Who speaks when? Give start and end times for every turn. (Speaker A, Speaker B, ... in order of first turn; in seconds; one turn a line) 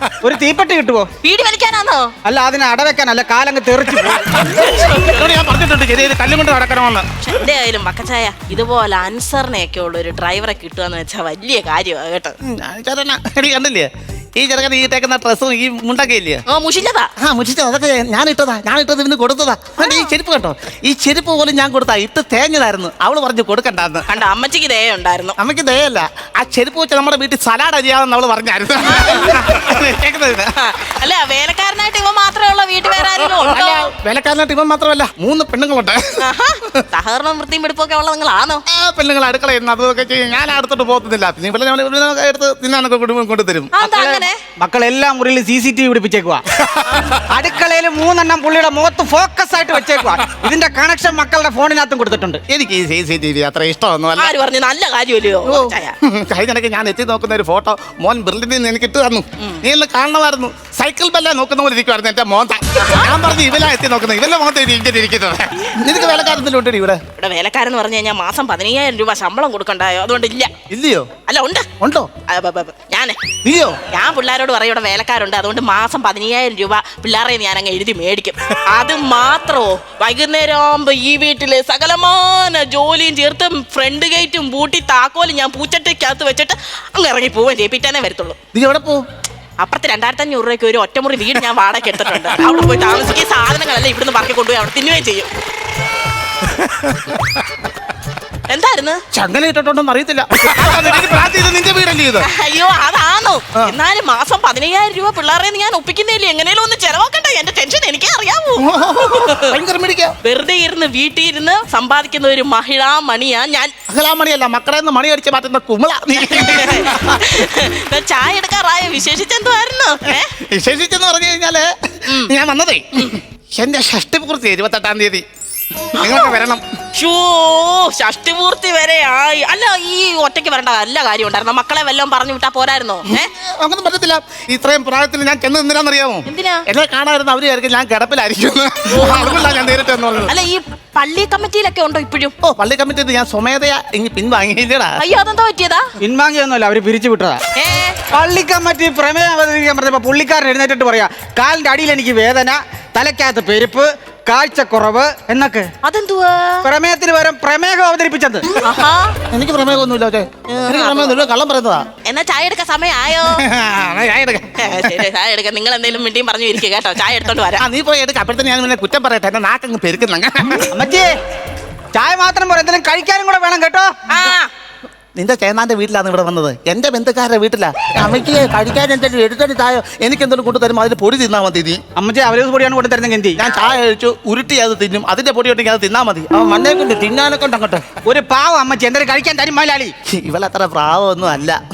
Speaker A: 0.2-1.1
Speaker B: 1.2-2.1
Speaker A: 2.2-4.4
Speaker B: 4.4-5.4
Speaker C: 4.6-7.1
Speaker B: 7.2-12.3
Speaker C: 12.4-16.4
Speaker B: 16.5-17.1
Speaker C: 17.2-24.1
Speaker B: 19.8-20.1
Speaker B: 24.1-25.3
Speaker C: 25.4-30.5
Speaker B: 28.8-29.4
Speaker B: 30.6-33.9
Speaker C: 33.5-36.2
Speaker B: 36.2-38.6
Speaker C: 38.7-43.7
Speaker B: 43.7-44.4
Speaker A: 43.8-46.4
Speaker A: 47.3-52.4
Speaker C: 52.5-54.3
Speaker B: 54.1-55.9
Speaker C: 55.4-67.0
Speaker B: 62.8-63.1
Speaker B: 67.2-70.5
Speaker C: 70.7-71.1
Speaker B: 71.3-71.7
Speaker C: 71.8-72.1
Speaker B: 72.3-73.2
Speaker C: 73.4-73.8
Speaker B: 73.9-88.4
Speaker C: 88.5-89.0
Speaker B: 89.6-95.3
Speaker C: 96.6-97.1
Speaker B: 98.5-99.0
Speaker C: 99.1-102.3
Speaker B: 102.2-109.6
Speaker C: 108.6-110.1
Speaker B: 110.2-113.7
Speaker C: 113.9-117.3
Speaker B: 116.2-120.3
Speaker C: 120.2-125.2
Speaker C: 126.0-126.6
Speaker B: 126.0-126.3
Speaker B: 126.9-133.3
Speaker C: 133.1-140.3
Speaker B: 136.3-136.6
Speaker B: 138.9-139.7
Speaker B: 140.3-142.3
Speaker C: 142.4-144.9
Speaker B: 145.0-145.9
Speaker A: 146.0-147.4
Speaker B: 147.6-148.0
Speaker A: 148.1-155.7
Speaker B: 155.8-156.7
Speaker A: 156.6-158.5
Speaker B: 158.6-159.2
Speaker C: 159.3-161.9
Speaker B: 160.5-161.3
Speaker B: 162.0-163.4
Speaker C: 163.3-165.0
Speaker B: 164.6-167.6
Speaker C: 167.6-170.7
Speaker A: 170.7-171.1
Speaker A: 171.9-173.9
Speaker B: 174.1-174.5
Speaker C: 175.2-181.8
Speaker A: 182.0-183.4
Speaker C: 183.4-187.8
Speaker A: 188.0-189.9
Speaker C: 190.1-191.6